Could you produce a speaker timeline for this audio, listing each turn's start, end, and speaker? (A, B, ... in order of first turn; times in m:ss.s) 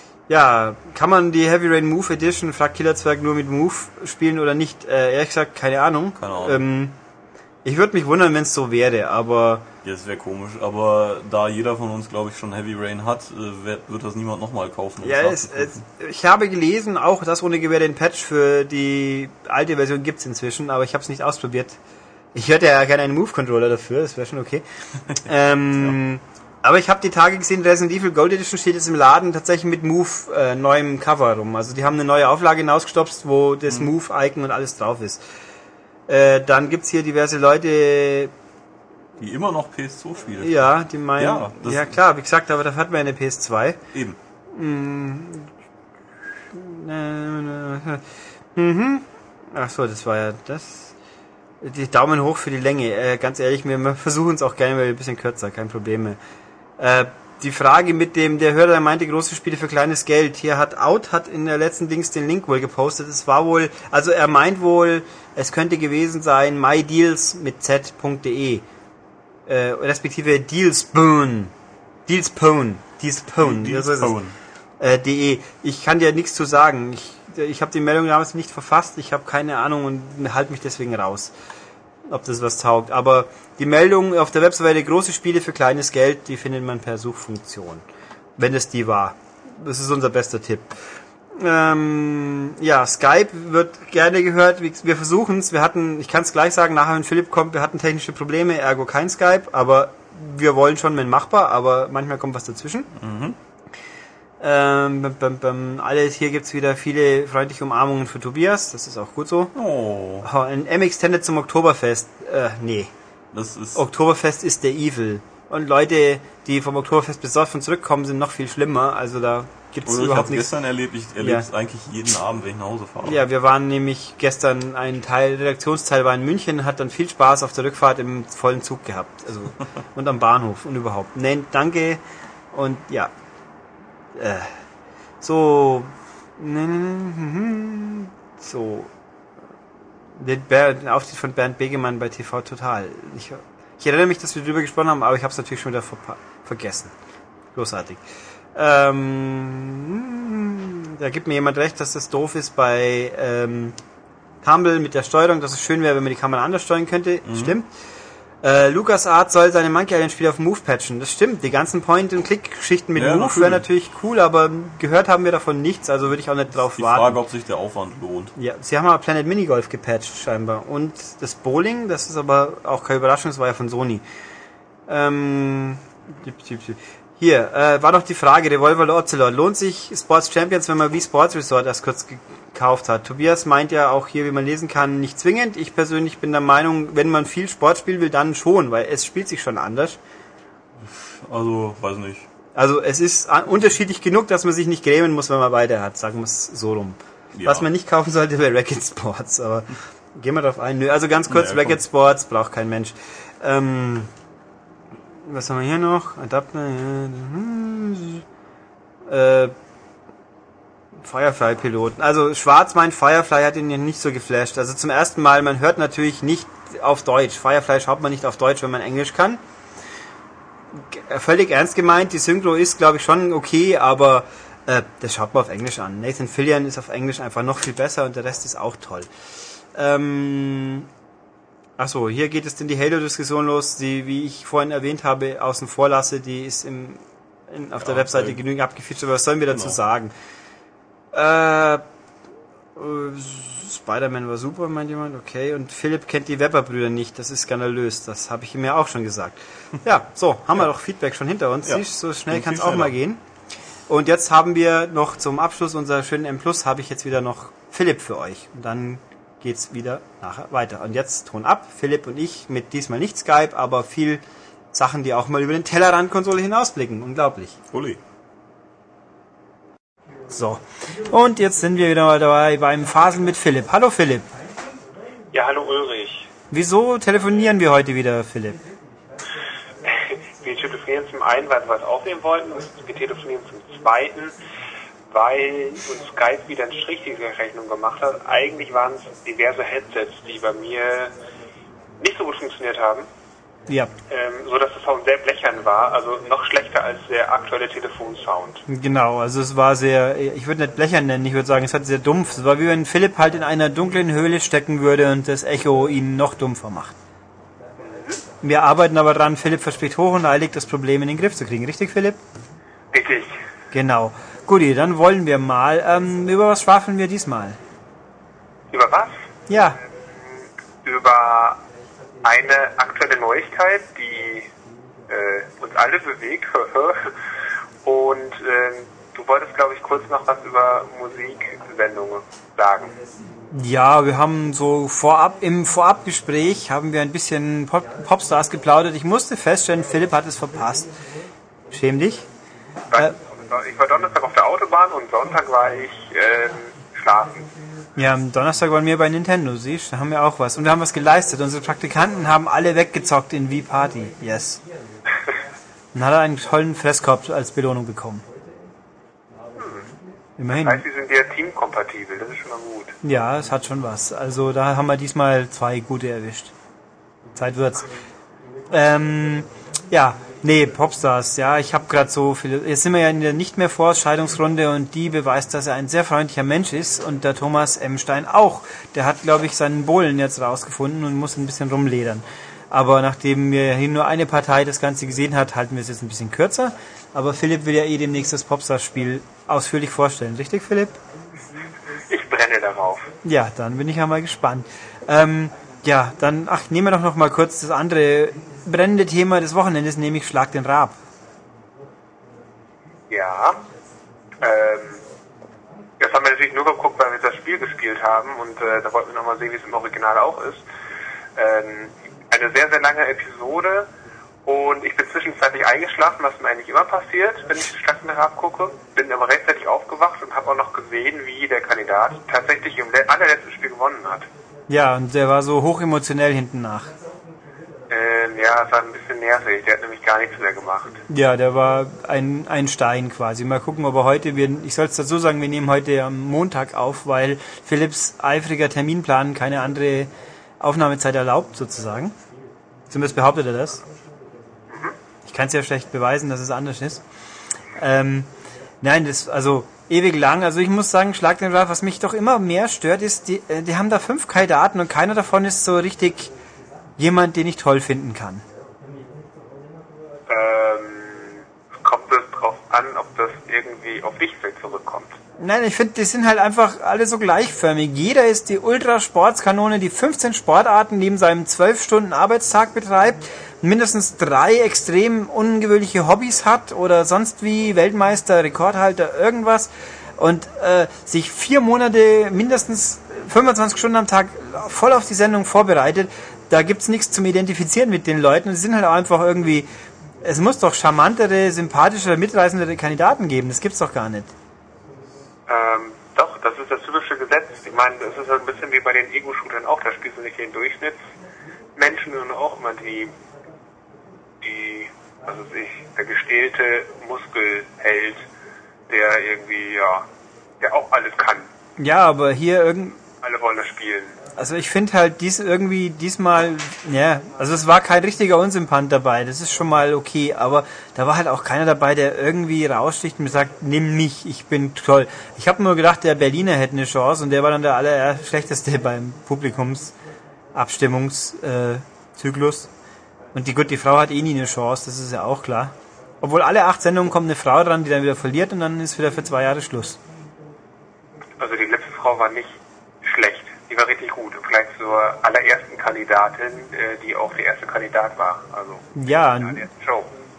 0:00.3-0:07.0 A
0:06.2-0:06.6 B
0:07.6-0:09.6 A
0:09.8-0:15.8 B
0:15.0-0:21.8 A
0:22.3-0:24.6 A
0:25.2-0:35.2 A
0:36.1-0:38.3 A
0:39.2-0:40.6 B
0:40.4-0:43.8 A
0:41.2-0:41.9 B
0:43.9-0:44.2 B
0:44.5-0:45.5 A
0:46.5-0:48.0 A
0:48.5-0:50.9 A
0:51.6-0:56.2 A
0:56.8-1:08.6 A
1:09.5-1:11.5 A
1:12.1-1:14.2 A
1:13.4-1:14.4 B
1:14.8-1:21.3 A
1:22.1-1:27.8 A
1:28.4-1:30.7 A
1:31.3-1:42.9 A
1:43.0-1:43.4 B
1:44.4-1:49.5 A
1:49.5-1:50.3 B
1:50.2-1:52.9 A
1:53.3-1:53.8 B
1:53.7-2:00.5 A
1:59.8-2:03.2 B
2:01.2-2:01.5 A
2:03.0-2:12.0 A
2:12.5-2:13.1 A
2:14.2-2:14.5 A
2:15.2-2:18.9 A
2:20.2-2:26.9 A
2:27.5-2:28.0 A
2:28.5-2:33.8 A
2:34.4-2:37.7 A
2:37.2-2:37.5 B
2:38.4-2:47.2 A
2:42.9-2:43.6 B
2:46.8-2:48.3 B
2:48.4-2:54.0 A
2:54.9-3:10.0 A
3:10.8-3:12.3 B
3:12.5-3:24.1 A
3:17.3-3:17.7 B
3:21.3-3:21.8 B
3:25.2-3:28.2 A
3:29.0-3:29.5 A
3:31.0-3:39.4 A
3:40.7-3:49.1 A
3:49.7-3:50.9 A
3:51.8-4:00.1 A
3:57.8-3:58.4 B
3:59.5-3:59.8 B
4:01.1-4:01.8 A
4:02.8-4:13.2 A
4:11.6-4:13.0 B
4:13.9-4:27.6 A
4:27.7-4:28.0 B
4:30.3-4:34.2 A
4:35.3-4:36.3 C
4:36.5-4:38.6 A
4:39.9-4:44.4 C
4:45.1-4:51.1 C
4:52.0-4:53.1 C
4:54.1-4:58.6 C
4:58.7-5:07.0 A
5:07.8-5:08.2 C
5:08.4-5:12.2 A
5:12.9-5:13.3 C
5:13.7-5:17.6 A
5:18.7-5:19.2 C
5:19.5-5:19.8 A
5:20.1-5:21.6 C
5:22.2-5:24.5 C
5:25.1-5:27.1 C
5:27.8-5:33.0 C
5:33.5-5:40.9 A
5:41.7-5:42.2 A
5:42.9-5:47.5 C
5:48.0-5:54.6 A
5:55.9-5:58.2 A
5:59.6-5:59.9 C
6:00.4-6:00.8 A
6:00.6-6:03.0 C
6:03.0-6:06.5 A
6:07.3-6:07.9 A
6:08.7-6:31.0 A
6:32.1-6:33.1 C
6:33.2-6:41.0 A
6:43.1-6:43.6 C
6:44.4-6:45.0 C
6:46.0-6:50.6 C
6:51.4-6:53.9 C
6:54.4-7:04.3 C
7:04.7-7:06.9 A
7:07.9-7:11.0 C
7:11.1-7:22.1 A
7:22.9-7:23.8 A
7:25.2-7:27.0 A
7:27.8-7:28.3 A
7:28.8-7:36.3 A
7:37.0-7:38.4 A
7:40.3-7:45.2 C
7:45.4-8:09.7 A
8:10.2-8:14.3 A
8:15.5-8:21.0 C
8:21.8-8:23.1 C
8:24.4-8:28.2 C
8:28.9-8:30.0 C
8:30.6-8:31.5 C
8:31.8-8:33.0 A
8:33.2-8:34.2 C
8:34.4-8:49.9 A
8:50.5-8:52.7 A
8:53.3-9:00.0 A
9:01.4-9:10.1 C
9:08.9-9:09.7 A